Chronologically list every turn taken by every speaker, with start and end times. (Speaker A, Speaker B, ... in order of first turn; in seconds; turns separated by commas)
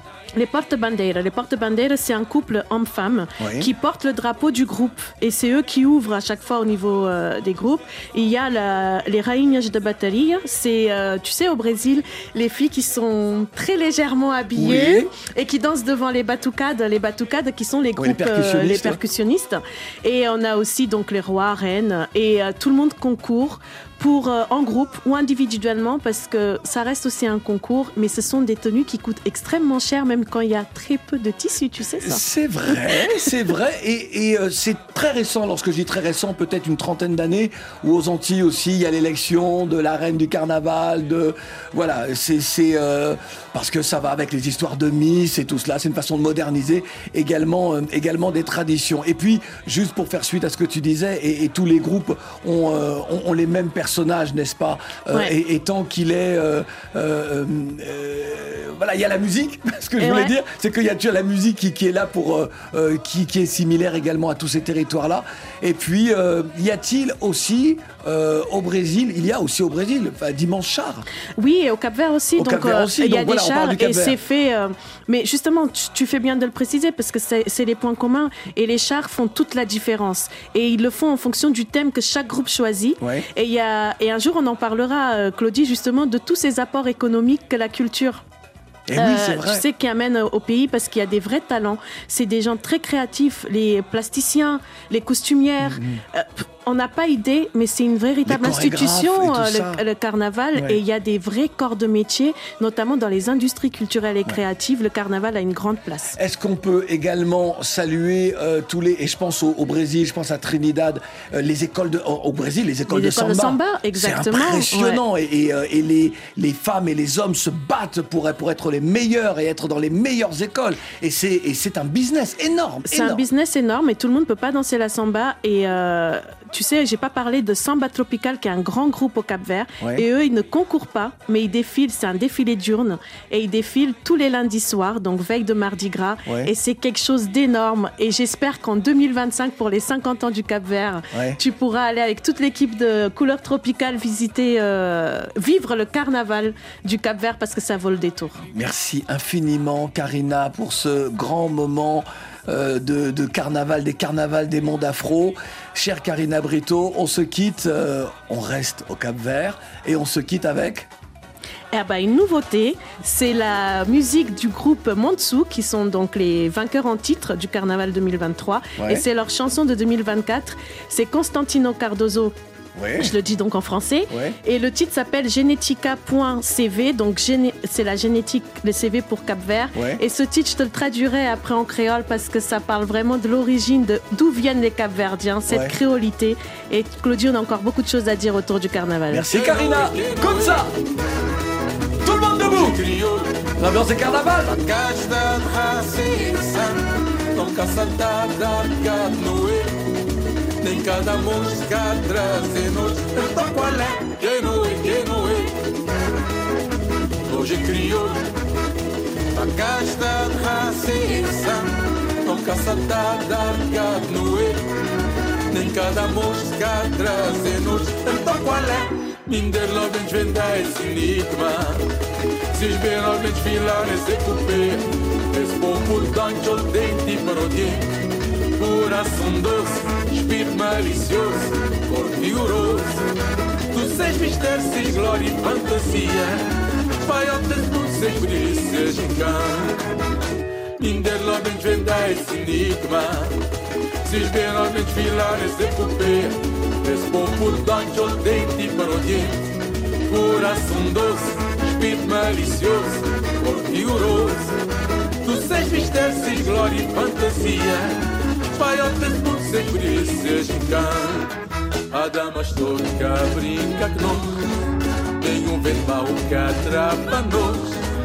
Speaker A: 0.4-33.0, Speaker B: 3.4-3.7, Speaker B: 14.6-15.1, Speaker B: 18.0-19.0, Speaker B: 32.0-71.1, Speaker A: 60.0-60.3, Speaker A: 71.4-88.2, Speaker B: 72.4-74.2, Speaker B: 83.0-83.3, Speaker B: 88.9-89.7, Speaker A: 89.0-106.2, Speaker B: 95.6-96.0, Speaker B: 98.2-99.8, Speaker B: 106.2-123.2, Speaker A: 112.9-115.0, Speaker A: 122.9-148.4, Speaker B: 136.3-136.5, Speaker B: 141.1-141.4, Speaker B: 148.5-160.9, Speaker A: 161.7-172.4, Speaker B: 168.8-169.0, Speaker B: 172.8-173.1, Speaker A: 173.0-189.3, Speaker B: 174.1-174.4, Speaker B: 179.8-180.0, Speaker B: 185.5-185.7, Speaker B: 189.1-190.7, Speaker C: 189.3-190.7, Speaker B: 192.0-192.8, Speaker C: 192.4-193.3, Speaker B: 193.6-194.6, Speaker C: 194.5-199.8, Speaker C: 200.6-205.5, Speaker C: 207.2-208.2, Speaker C: 209.3-214.6, Speaker C: 215.5-221.9, Speaker C: 222.5-227.9, Speaker C: 228.6-233.0, Speaker C: 233.7-236.5, Speaker C: 237.0-239.8, Speaker C: 240.8-243.4, Speaker C: 244.1-249.4, Speaker C: 250.1-254.5, Speaker C: 255.2-258.0, Speaker C: 258.5-261.3, Speaker C: 261.9-264.5, Speaker C: 265.2-267.8